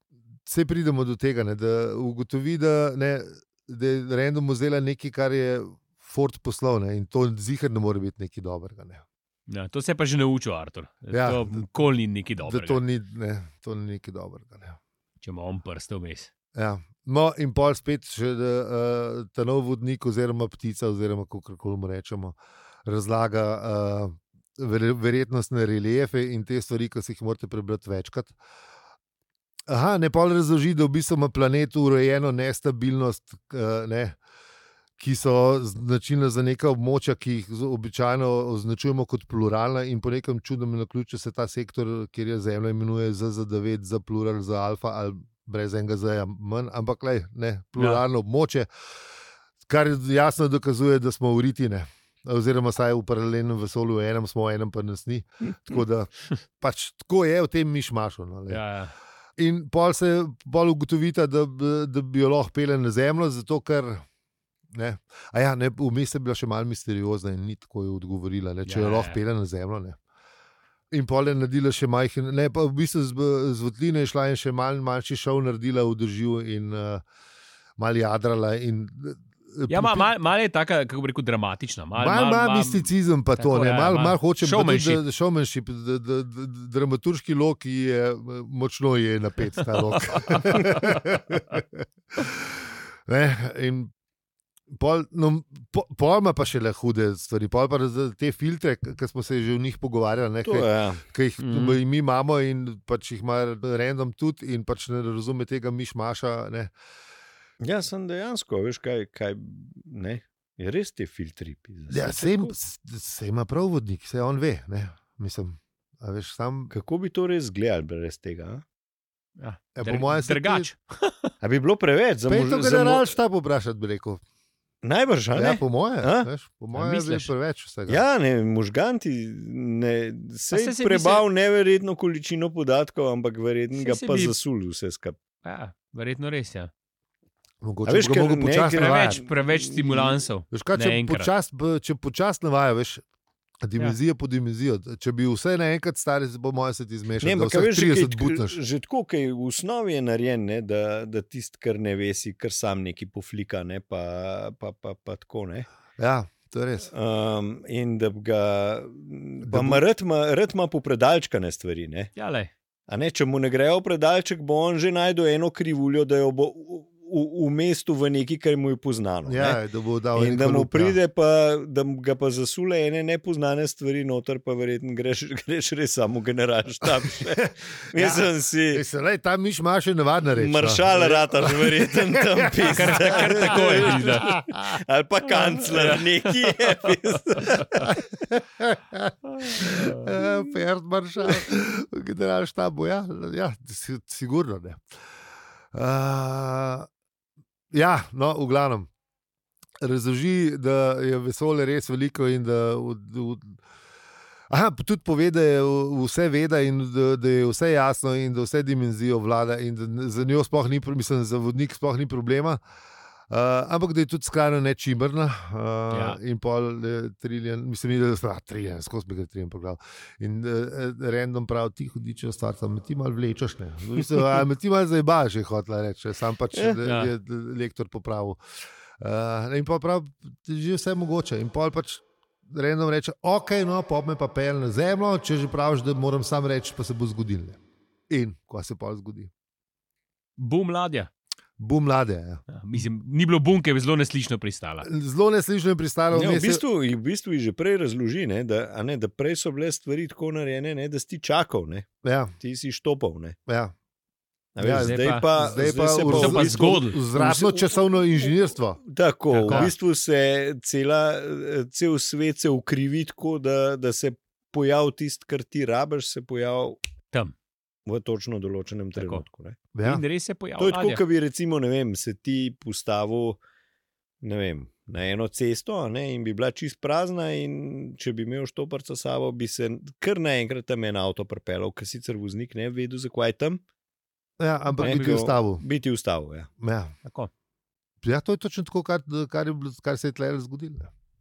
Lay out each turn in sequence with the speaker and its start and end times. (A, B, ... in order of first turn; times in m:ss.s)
0:00.4-0:09.0 A
0:09.5-0:12.8 B
0:11.1-0:11.7 A
0:12.4-0:14.8 A
0:15.2-0:16.3 B
0:16.5-0:28.4 A
0:29.7-0:34.2 A
0:35.0-0:48.7 A
0:47.8-0:48.0 B
0:49.6-0:58.6 A
0:58.5-0:58.9 B
0:59.4-1:04.0 A
1:04.7-1:10.0 A
1:08.6-1:09.2 B
1:10.9-1:17.0 A
1:17.8-1:20.1 A
1:19.7-1:25.0 B
1:22.0-1:33.9 A
1:30.1-1:30.8 B
1:34.7-1:46.7 A
1:40.4-1:41.0 C
1:41.4-1:41.8 B
1:47.6-1:52.5 C
1:51.9-1:56.7 A
1:56.7-1:58.6 C
1:59.4-2:01.3 B
1:59.7-2:00.7 A
2:01.4-2:03.1 C
2:02.3-2:04.2 A
2:04.8-2:06.3 C
2:05.3-2:08.0 A
2:06.7-2:07.3 B
2:07.9-2:15.2 C
2:10.5-2:11.2 B
2:13.7-2:14.4 B
2:15.4-2:16.7 B
2:17.6-2:19.2 A
2:17.8-2:20.2 C
2:18.7-2:21.3 B
2:20.5-2:23.0 A
2:23.6-2:28.6 A
2:27.2-2:35.7 C
2:36.0-2:36.9 A
2:36.9-2:42.1 C
2:39.4-2:39.8 A
2:42.2-2:42.5 B
2:42.9-2:49.6 C
2:49.2-2:51.0 A
2:50.1-2:58.8 C
2:56.8-2:57.4 A
2:58.0-3:04.1 A
3:00.4-3:07.9 C
3:02.6-3:04.4 B
3:05.7-3:06.0 B
3:07.4-3:07.7 B
3:07.9-3:14.8 A
3:09.3-3:10.0 B
3:15.7-3:16.9 A
3:17.7-3:18.9 A
3:19.8-3:23.6 A
3:24.5-3:32.6 A
3:33.3-3:48.4 A
3:35.9-3:36.2 B
3:46.5-3:46.8 C
3:46.8-3:47.1 B
3:49.0-3:59.3 A
4:00.4-4:01.1 B
4:01.6-4:02.8 A
4:02.5-4:04.9 B
4:04.8-4:06.6 A
4:06.1-4:11.8 C
4:12.0-4:12.3 A
4:12.4-4:13.4 C
4:13.5-4:13.7 A
4:14.5-4:18.3 C
4:14.6-4:18.8 A
4:14.7-4:15.2 B
4:16.0-4:17.0 B
4:18.8-4:26.8 C
4:19.3-4:19.7 B
4:19.5-4:19.7 A
4:27.8-4:29.6 C
4:29.0-4:29.2 B
4:29.7-4:30.0 A
4:29.8-4:31.0 B
4:30.6-4:33.4 C
4:34.2-4:43.6 C
4:44.4-4:45.6 A
4:44.7-4:45.2 B
4:44.8-4:46.5 C
4:46.6-4:46.9 A
4:47.0-4:47.3 B
4:48.0-4:50.9 A